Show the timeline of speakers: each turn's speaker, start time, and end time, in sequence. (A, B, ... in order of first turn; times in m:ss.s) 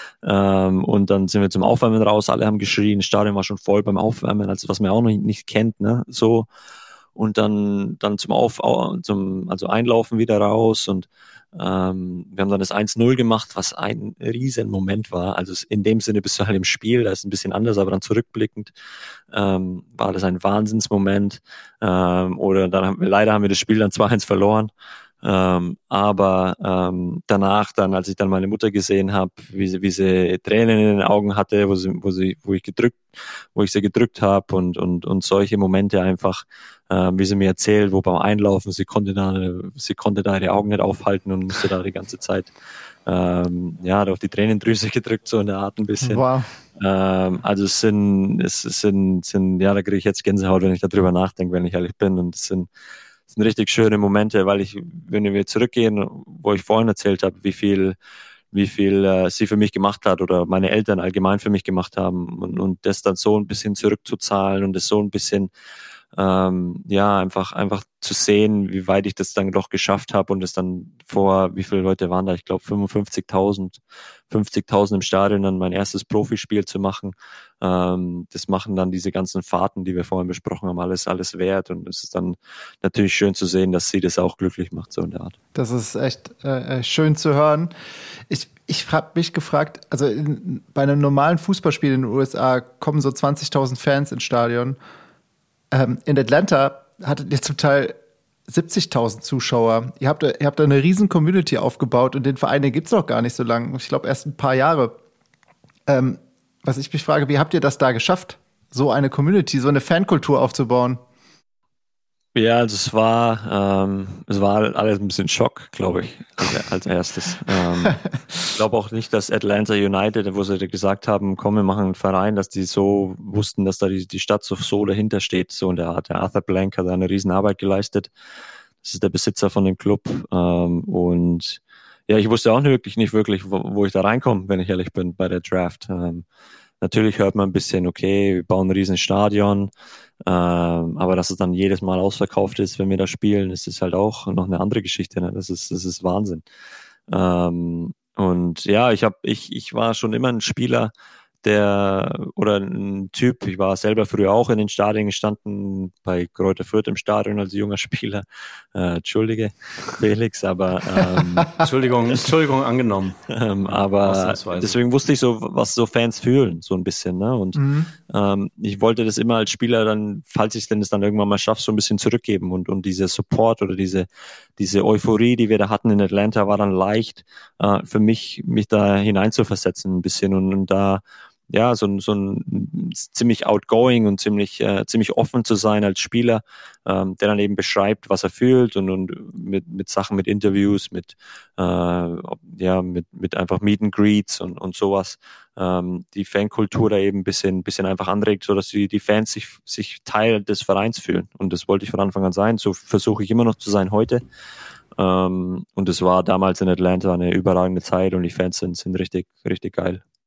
0:00.2-0:06.5 A
0:07.1-0:18.7 A
0:19.3-0:24.7 A
0:25.2-0:33.0 A
0:33.5-0:42.5 A
0:43.0-0:46.2 A
0:46.0-0:46.5 B
0:46.8-0:52.7 A
0:53.3-0:58.0 A
0:58.5-1:05.5 A
1:06.1-1:25.3 A
1:25.5-1:27.7 B
1:28.3-1:34.8 B
1:35.7-1:38.0 B
1:38.5-1:45.0 B
1:45.9-1:51.0 B
1:52.3-2:08.1 A
2:08.8-2:16.2 A
2:16.8-2:19.7 A
2:20.2-2:26.4 A
2:27.1-2:30.9 A
2:31.4-2:41.6 A
2:41.6-2:44.8 C
2:43.3-3:24.2 A
2:47.6-2:47.9 B
3:25.0-3:30.0 A